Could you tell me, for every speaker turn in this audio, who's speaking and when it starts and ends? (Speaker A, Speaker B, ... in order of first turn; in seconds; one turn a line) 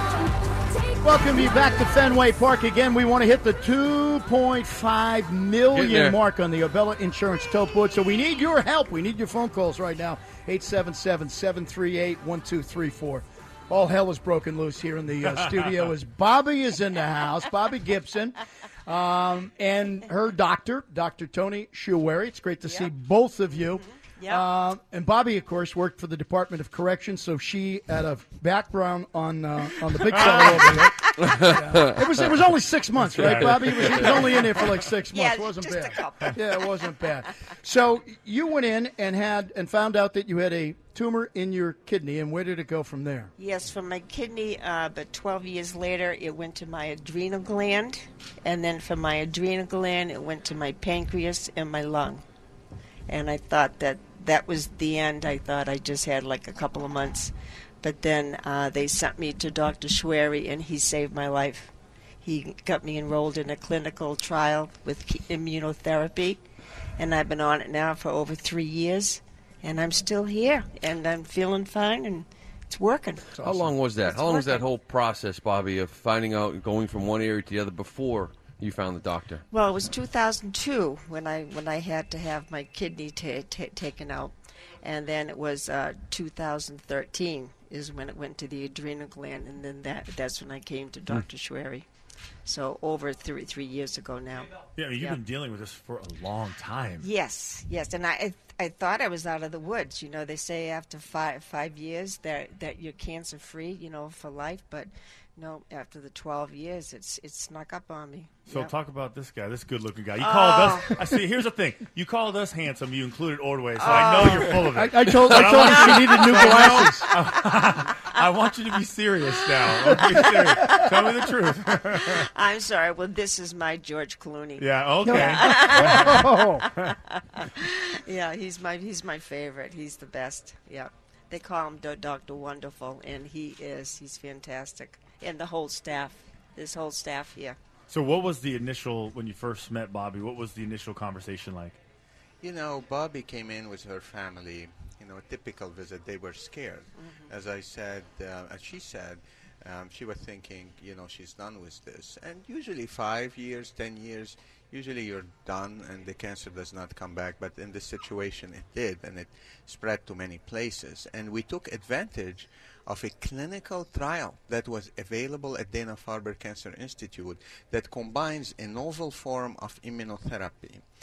Speaker A: 1.0-43.3
Speaker B: 5.7-6.2
Speaker C: 22.6-22.9
Speaker C: 24.2-24.5
Speaker C: 30.0-30.5
Speaker D: 30.1-30.8
Speaker D: 33.2-34.8
Speaker C: 35.1-37.0
Speaker C: 43.4-52.2
Speaker C: 53.1-66.4
Speaker C: 67.0-73.5
Speaker A: 73.4-73.7
Speaker B: 73.5-79.4
Speaker C: 74.0-74.6
Speaker C: 79.5-91.9
Speaker C: 92.5-95.2
Speaker D: 94.8-97.1
Speaker C: 97.0-108.7
Speaker D: 108.5-122.2
Speaker C: 110.2-111.0
Speaker C: 113.8-114.6
Speaker A: 113.9-117.1
Speaker C: 115.2-117.3
Speaker A: 119.9-120.5
Speaker C: 121.9-126.5
Speaker D: 124.6-126.2
Speaker A: 125.0-126.7
Speaker C: 127.3-137.6
Speaker D: 137.9-141.8
Speaker E: 142.4-170.8
Speaker C: 147.0-147.3